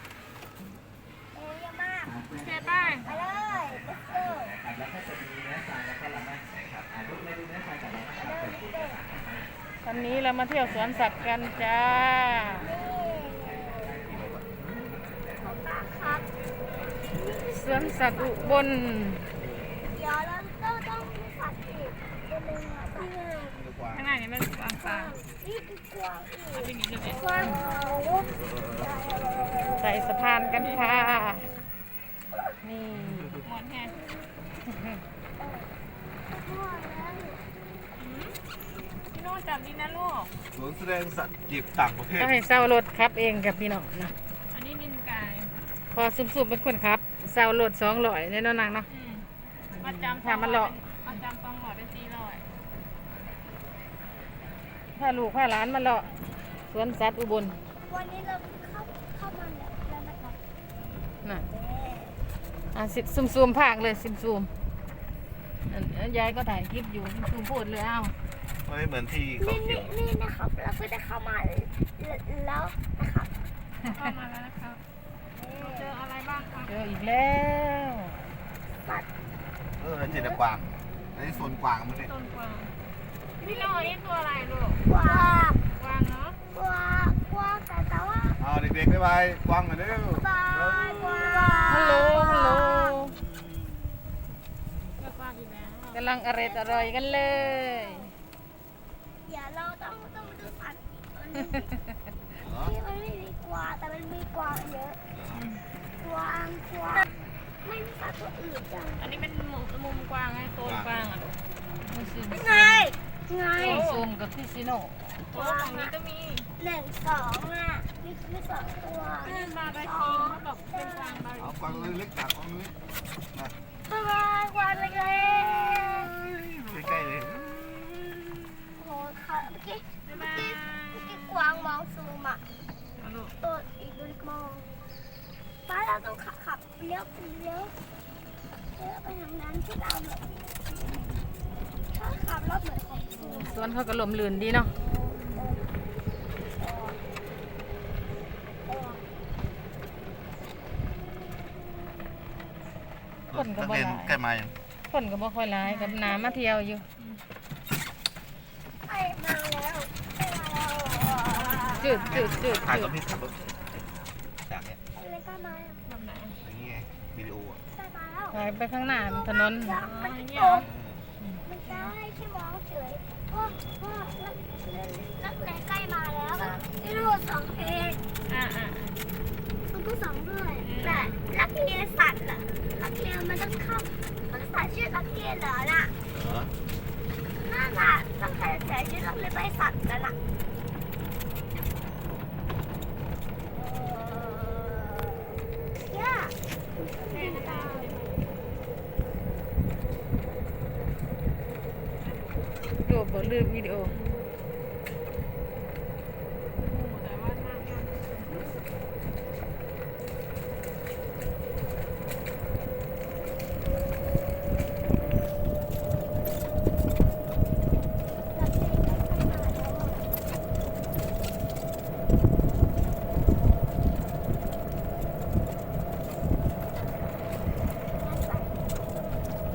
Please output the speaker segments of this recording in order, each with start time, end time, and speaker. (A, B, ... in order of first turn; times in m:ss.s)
0:01.3-0:02.2 A
0:02.1-0:09.4 B
0:02.4-0:03.1 C
0:03.0-0:04.6 A
0:08.0-0:09.1 A
0:09.8-0:12.7 D
0:12.6-0:14.0 A
0:13.6-0:14.4 B
0:14.1-0:14.8 E
0:15.0-0:15.6 B
0:15.4-0:16.3 A
0:17.1-0:18.7 A
0:17.5-0:19.3 D
0:19.4-0:19.7 E
0:19.9-0:23.6 A
0:23.5-0:24.1 E
0:23.9-0:25.2 C
0:24.8-0:29.9 A
0:26.5-0:27.6 C
0:29.8-0:31.5 D
0:30.5-0:30.9 C
0:31.1-0:31.5 A
0:32.6-0:33.4 D
0:32.9-0:33.4 E
0:33.4-0:34.0 C
0:33.8-0:34.3 A
0:34.7-0:35.0 D
0:35.4-0:35.7 A
0:36.3-0:37.5 A
0:38.0-0:38.4 C
0:39.1-0:40.3 C
0:40.5-0:42.4 E
0:42.2-0:44.2 D
0:44.5-0:45.5 C
0:45.9-0:48.9 D
0:48.9-0:52.5 C
0:49.8-0:50.7 D
0:55.0-0:56.1 D
0:56.7-0:57.6 D
0:57.9-1:00.4 A
1:00.7-1:01.2 E
1:01.5-1:02.2 A
1:02.7-1:04.5 D
1:05.7-1:08.1 D
1:08.6-1:10.0 E
1:09.4-1:13.3 A
1:13.8-1:14.8 C
1:15.4-1:16.8 C
1:15.4-1:16.0 A
1:16.7-1:18.3 D
1:18.8-1:19.1 A
1:19.8-1:22.1 E
1:20.1-1:20.4 A
1:21.3-1:22.7 C
1:23.4-1:24.9 C
1:23.4-1:24.0 A
1:24.8-1:25.6 A
1:25.8-1:26.4 C
1:26.5-1:28.4 A
1:28.4-1:31.6 E
1:30.0-1:33.0 A
1:31.7-1:33.2 D
1:32.9-1:33.5 E
1:35.0-1:36.0 C
1:35.9-1:38.1 D
1:36.4-1:38.1 A
1:39.2-1:41.7 A
1:42.4-1:42.7 E
1:42.4-1:45.0 A
1:45.1-1:45.5 E
1:45.3-1:45.6 C
1:46.0-1:47.1 A
1:47.6-1:49.3 A
1:49.0-1:51.4 C
1:50.6-1:51.1 E
1:51.8-1:52.9 D
1:52.3-1:53.9 A
1:53.6-1:55.3 D
1:53.6-1:54.1 C
1:55.3-1:55.9 A
1:55.3-1:56.5 C
1:56.6-2:01.3 A
1:59.2-2:01.6 C
2:01.4-2:02.8 E
2:03.9-2:06.3 A
2:04.7-2:05.3 C
2:06.3-2:08.0 E
2:08.8-2:12.4 A
2:10.0-2:11.7 C
2:13.0-2:13.4 C
2:13.4-2:14.7 A
2:15.7-2:17.8 A
2:18.8-2:20.3 A
2:21.9-2:23.6 A
2:23.1-2:23.5 C
2:23.4-2:24.7 D
2:24.8-2:25.7 A
2:25.2-2:25.5 C
2:26.6-2:27.0 A
2:28.7-2:29.0 A
2:33.3-2:34.6 E
2:33.3-2:34.2 D
2:34.9-2:36.8 D
2:35.6-2:36.3 C
2:37.0-2:37.2 C
2:38.9-2:41.9 A
2:41.3-2:42.4 C
2:41.8-2:43.0 D
2:42.1-2:43.8 E
2:44.4-2:44.8 E
2:44.9-2:45.8 A
2:45.9-2:46.4 C
2:46.4-2:47.6 E
2:47.7-2:48.4 A
2:48.3-2:49.8 D
2:48.9-2:50.7 A
2:49.8-2:50.7 C
2:50.6-2:51.1 E
2:51.4-2:58.0 A
2:51.7-2:51.9 C
2:58.3-2:59.0 C
2:59.7-3:05.9 A
3:00.6-3:01.1 C
3:00.8-3:01.1 E
3:06.1-3:06.5 E
3:07.4-3:10.2 A
3:13.5-3:15.3 A
3:15.8-3:18.0 A
3:17.1-3:18.2 C
3:22.0-3:22.4 C
3:22.8-3:23.9 D
3:23.9-3:24.3 C
3:26.6-3:28.4 C
3:38.3-3:40.1 A
3:47.9-3:48.7 A